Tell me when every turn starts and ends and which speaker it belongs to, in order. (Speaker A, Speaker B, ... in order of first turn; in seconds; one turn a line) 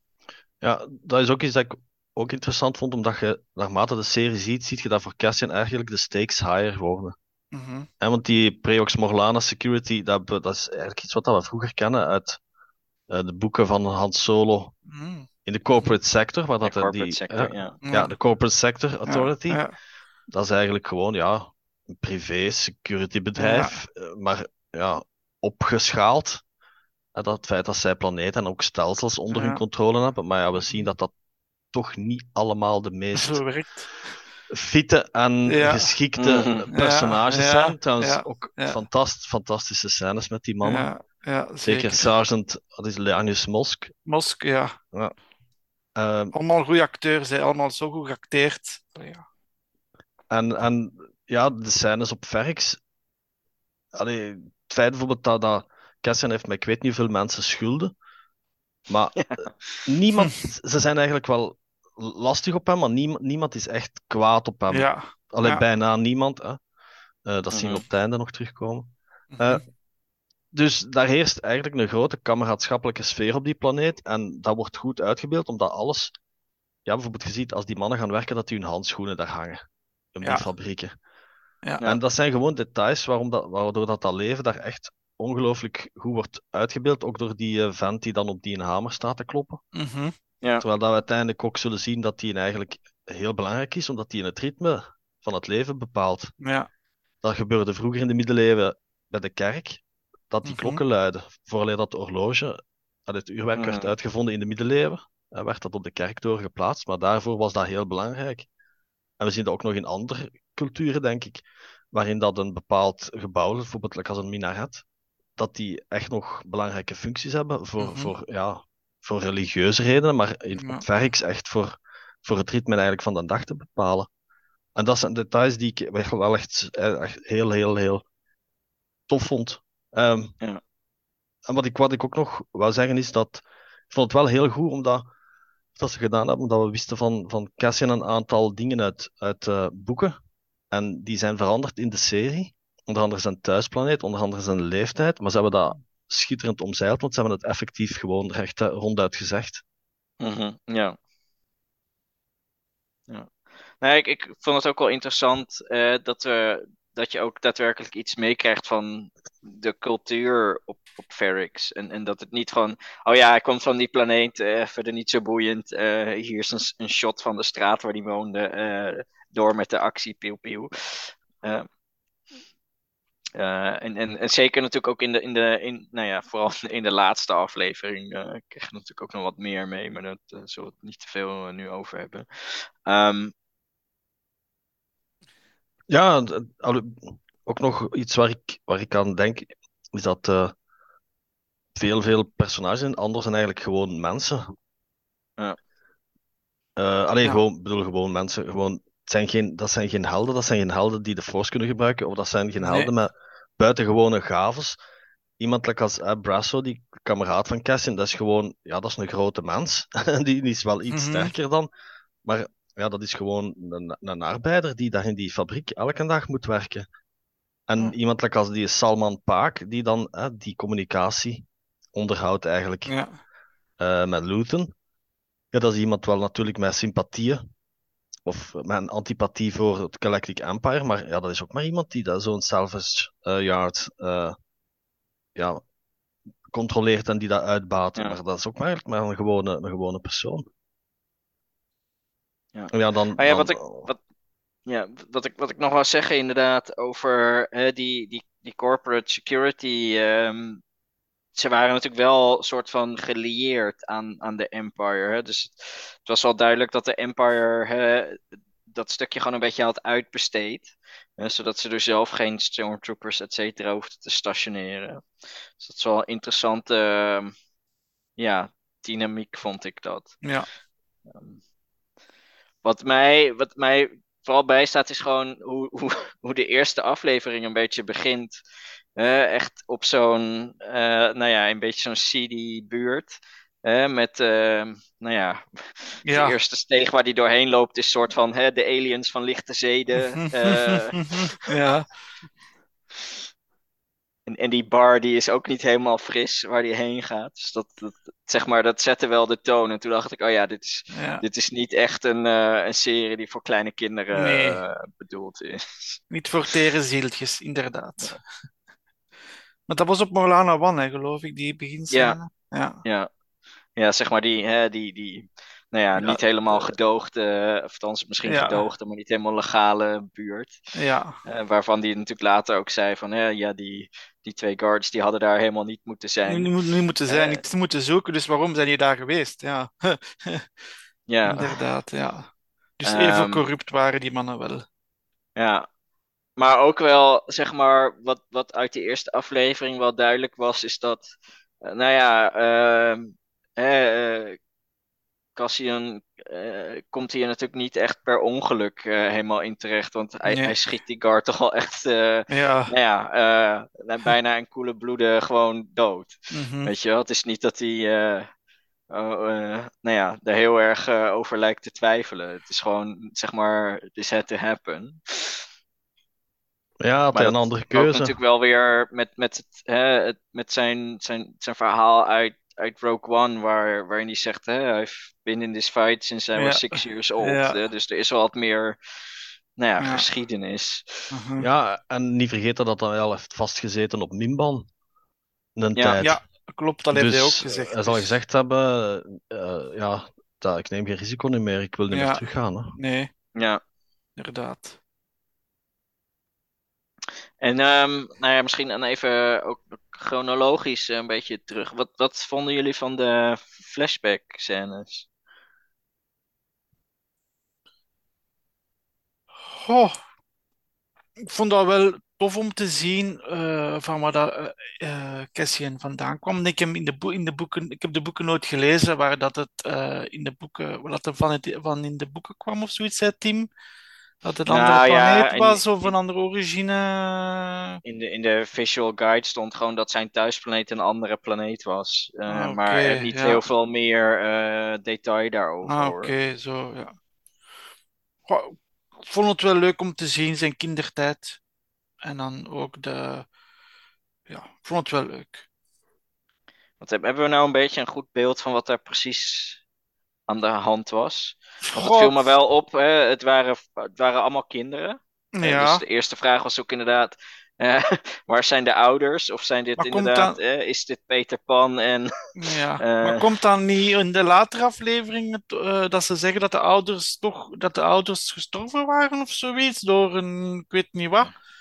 Speaker A: 0.6-7.1
Speaker B: 7.5-7.9
Speaker A: 8.0-12.4
Speaker A: 13.1-14.7
Speaker B: 14.9-15.3
Speaker A: 15.4-19.6
Speaker C: 16.6-17.8
Speaker B: 17.8-18.1
Speaker B: 19.1-19.7
Speaker A: 20.3-26.4
Speaker B: 23.4-23.7
Speaker A: 27.1-31.1
Speaker B: 29.3-29.6
Speaker A: 31.7-33.4
Speaker B: 33.1-34.1
Speaker A: 34.5-40.9
Speaker B: 35.5-35.9
Speaker C: 36.2-36.7
Speaker B: 36.7-38.8
Speaker B: 40.6-42.1
Speaker A: 41.6-43.9
Speaker B: 44.0-44.8
Speaker A: 46.0-46.3
Speaker B: 46.3-49.2
Speaker A: 50.3-52.8
Speaker A: 53.9-57.9
Speaker A: 58.9-59.2
Speaker C: 59.2-59.8
Speaker A: 59.9-66.6
Speaker B: 64.7-65.6
Speaker A: 67.2-69.6
Speaker C: 67.5-67.8
Speaker B: 69.3-69.6
Speaker A: 70.5-76.1
Speaker A: 76.8-79.6
Speaker A: 80.1-80.9
Speaker A: 81.8-89.6
Speaker B: 89.7-90.1
Speaker A: 90.6-96.3
Speaker B: 96.4-96.7
Speaker A: 97.2-108.5
Speaker B: 100.4-100.8
Speaker C: 103.5-103.9
Speaker A: 109.2-114.8
Speaker A: 115.4-124.1
Speaker B: 117.8-118.1
Speaker B: 120.6-120.8
Speaker A: 124.8-128.0
Speaker A: 129.1-130.3
Speaker A: 131.5-135.0
Speaker A: 135.8-140.2
Speaker A: 140.7-149.6
Speaker C: 150.2-150.9
Speaker C: 153.8-171.7
Speaker C: 173.3-183.3
Speaker A: 185.9-190.5
Speaker A: 191.8-194.5
Speaker A: 196.8-204.8
Speaker B: 202.6-202.9
Speaker A: 205.4-211.7
Speaker B: 210.9-211.3
Speaker A: 212.2-216.9
Speaker A: 217.7-222.9
Speaker B: 222.8-223.2
Speaker A: 223.8-224.7
Speaker A: 225.5-227.4
Speaker A: 228.2-234.3
Speaker A: 235.3-235.6
Speaker A: 236.5-240.4
Speaker C: 242.5-244.0
Speaker A: 242.7-243.9
Speaker C: 244.7-250.6
Speaker C: 251.3-265.0
Speaker C: 265.6-267.3
Speaker C: 268.2-270.2
Speaker C: 271.1-271.4
Speaker C: 272.6-278.4
Speaker C: 279.0-291.4
Speaker B: 286.1-286.4
Speaker B: 290.1-291.9
Speaker C: 294.3-306.5
Speaker B: 300.9-301.2
Speaker B: 304.1-304.6
Speaker B: 306.1-308.2
Speaker B: 309.7-312.8
Speaker C: 311.9-312.2
Speaker C: 313.8-320.6
Speaker B: 316.0-316.7
Speaker B: 318.3-318.7
Speaker B: 320.7-321.1
Speaker C: 321.2-326.6
Speaker B: 326.3-330.5
Speaker C: 327.1-327.4
Speaker C: 331.1-331.6
Speaker B: 331.2-334.6
Speaker C: 332.8-333.4
Speaker C: 335.4-335.6
Speaker C: 336.4-344.4
Speaker C: 345.4-358.3
Speaker B: 350.2-350.5
Speaker B: 352.3-352.7
Speaker B: 356.3-356.7
Speaker C: 358.9-365.5
Speaker A: 366.8-368.1
Speaker C: 367.1-381.2
Speaker B: 376.4-377.6
Speaker B: 379.8-380.0
Speaker B: 381.1-381.5
Speaker A: 381.4-384.6
Speaker A: 385.6-386.2
Speaker B: 386.0-388.1
Speaker A: 386.9-392.7
Speaker B: 391.9-392.2
Speaker B: 392.8-393.1
Speaker C: 393.4-393.6
Speaker B: 394.2-394.8
Speaker C: 397.4-405.1
Speaker B: 409.5-410.0
Speaker B: 411.3-423.5
Speaker B: 424.2-427.8
Speaker C: 424.5-425.9
Speaker C: 427.8-436.1
Speaker B: 432.3-433.4
Speaker B: 435.6-436.9
Speaker B: 438.3-441.4
Speaker B: 442.0-443.3
Speaker B: 444.3-445.4
Speaker C: 446.8-449.6
Speaker C: 450.3-462.1
Speaker B: 451.6-452.2
Speaker B: 455.3-455.8
Speaker B: 459.8-460.4
Speaker B: 462.4-471.3
Speaker C: 462.8-463.4